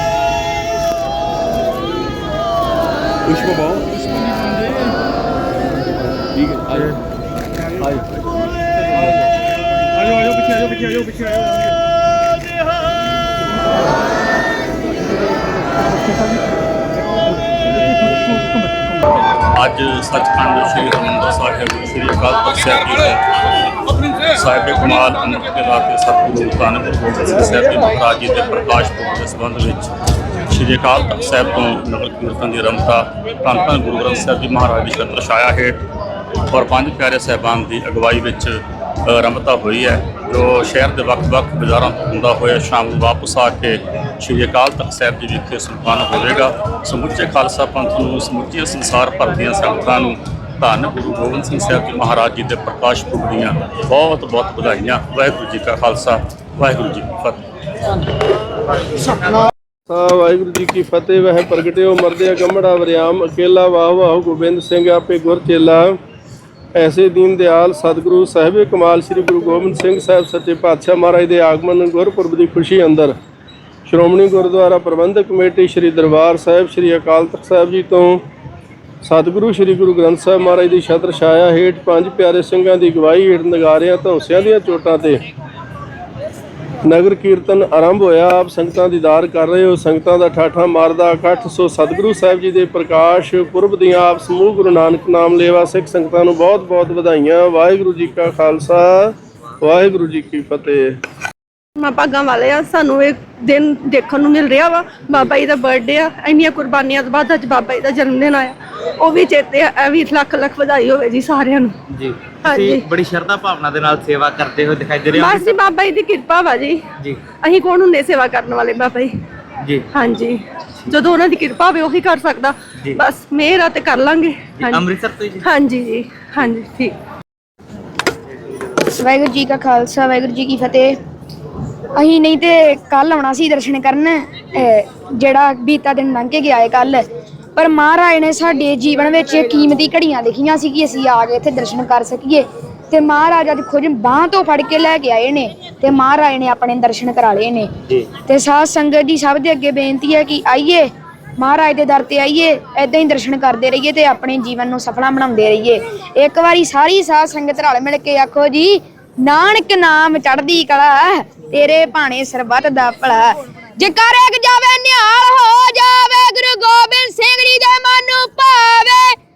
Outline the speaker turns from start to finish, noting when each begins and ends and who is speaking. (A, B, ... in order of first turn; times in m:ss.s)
0:19.6-0:23.2 A
0:24.3-0:29.9 A
0:30.5-0:35.8 A
0:36.5-0:57.4 A
0:59.9-1:06.0 B
1:06.8-1:13.1 B
1:13.8-1:18.2 B
1:19.0-1:25.2 B
1:26.8-1:41.0 B
1:41.8-1:51.7 C
1:51.9-1:55.5 D
1:52.4-1:52.8 C
1:55.1-1:56.8 C
1:57.4-1:59.1 C
1:59.9-2:04.8 C
2:04.6-2:05.4 D
2:05.4-2:07.0 C
2:08.9-2:10.9 E
2:12.0-2:17.0 E
2:17.6-2:27.7 E
2:28.2-2:30.9 E
2:31.4-2:49.1 E